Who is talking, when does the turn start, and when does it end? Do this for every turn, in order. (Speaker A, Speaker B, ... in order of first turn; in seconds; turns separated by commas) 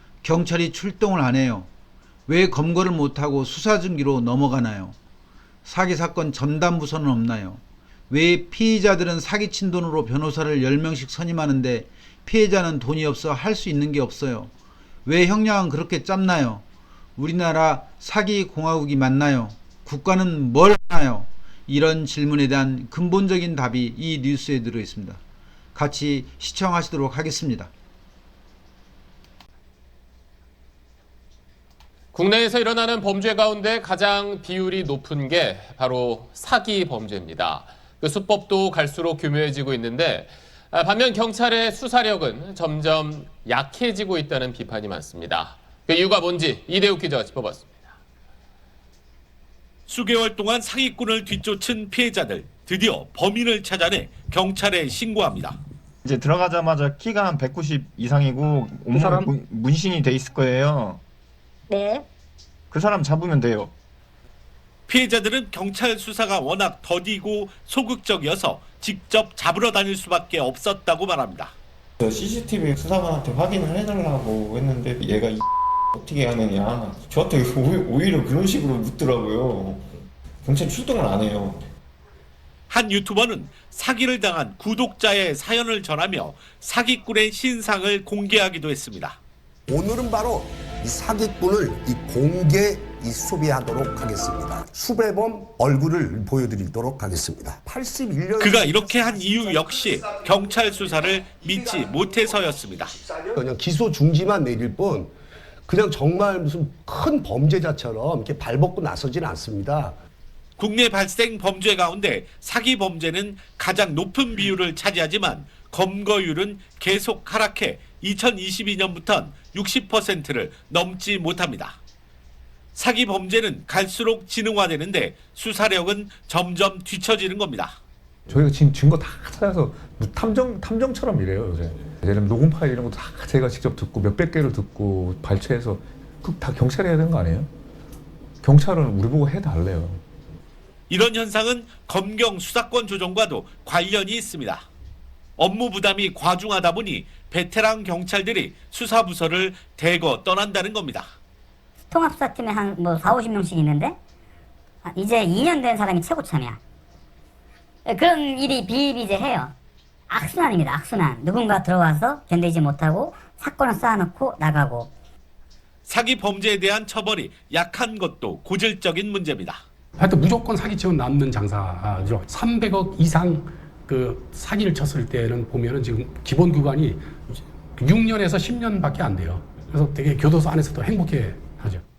Speaker A: 0.2-1.7, Speaker A: 2.3-5.0, Speaker A: 5.6-14.5, Speaker A: 15.0-16.6, Speaker A: 17.2-25.2, Speaker A: 25.7-27.7, Speaker B: 32.1-47.7, Speaker C: 49.9-55.6, Speaker D: 56.0-61.0, Speaker D: 62.7-63.7, Speaker C: 64.9-71.5, Speaker E: 72.0-75.4, Speaker E: 76.0-79.8, Speaker E: 80.5-81.6, Speaker C: 82.7-89.2, Speaker F: 89.7-100.5, Speaker C: 98.4-102.9, Speaker F: 101.4-102.3, Speaker F: 102.9-105.1, Speaker F: 105.7-110.0, Speaker C: 110.6-121.8, Speaker C: 122.7-127.8, Speaker G: 128.3-137.5, Speaker G: 138.4-140.0, Speaker C: 140.9-144.7, Speaker C: 145.4-151.1, Speaker H: 151.9-153.9, Speaker H: 154.9-156.6, Speaker H: 157.9-159.5, Speaker H: 160.1-164.9, Speaker C: 165.9-169.6, Speaker I: 170.0-181.8